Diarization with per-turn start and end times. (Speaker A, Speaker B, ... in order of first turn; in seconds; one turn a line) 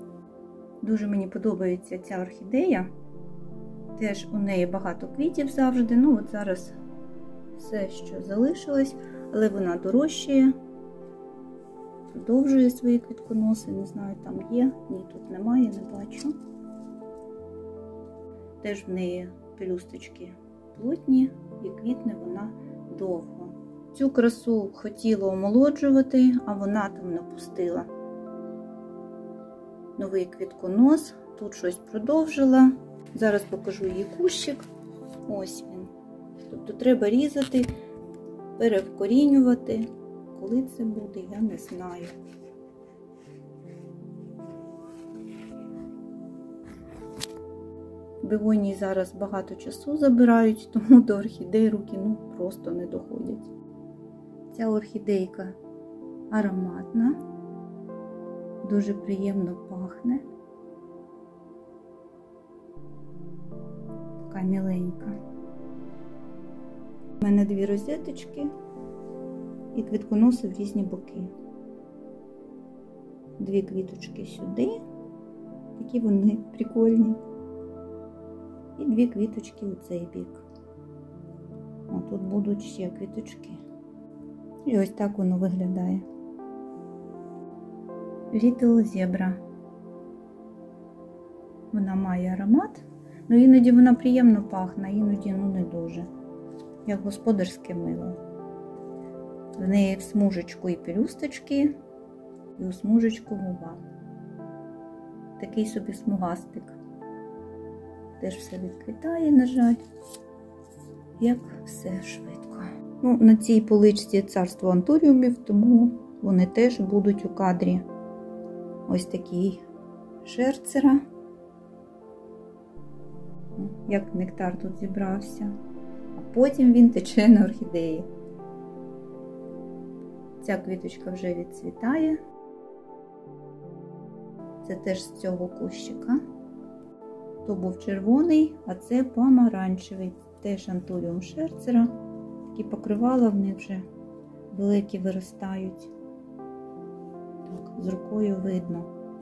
Speaker A: 0.8-2.9
Speaker A: 4.0-6.8
Speaker A: 7.5-10.5
Speaker A: 12.1-16.3
Speaker A: 18.6-27.9
Speaker A: 30.0-34.7
Speaker A: 35.3-35.9
Speaker A: 36.5-37.7
Speaker A: 38.6-42.2
Speaker A: 48.2-53.5
Speaker A: 54.5-55.6
Speaker A: 56.3-57.2
Speaker A: 58.6-60.2
Speaker A: 64.2-65.2
Speaker A: 67.2-68.5
Speaker A: 69.7-71.3
Speaker A: 73.4-74.8
Speaker A: 75.8-77.2
Speaker A: 78.8-80.5
Speaker A: 81.9-83.6
Speaker A: 84.7-86.0
Speaker A: 88.3-89.4
Speaker A: 91.7-96.1
Speaker A: 96.8-98.2
Speaker A: 99.6-101.8
Speaker A: 102.6-103.8
Speaker A: 105.4-106.8
Speaker A: 108.2-109.8
Speaker A: 111.2-117.9
Speaker A: 118.9-119.6
Speaker A: 120.2-121.0
Speaker A: 123.6-125.5
Speaker A: 126.1-128.1
Speaker A: 130.4-132.2
Speaker A: 134.6-136.2
Speaker A: 137.4-141.9
Speaker A: 142.5-143.8
Speaker A: 144.5-145.9
Speaker A: 147.5-148.9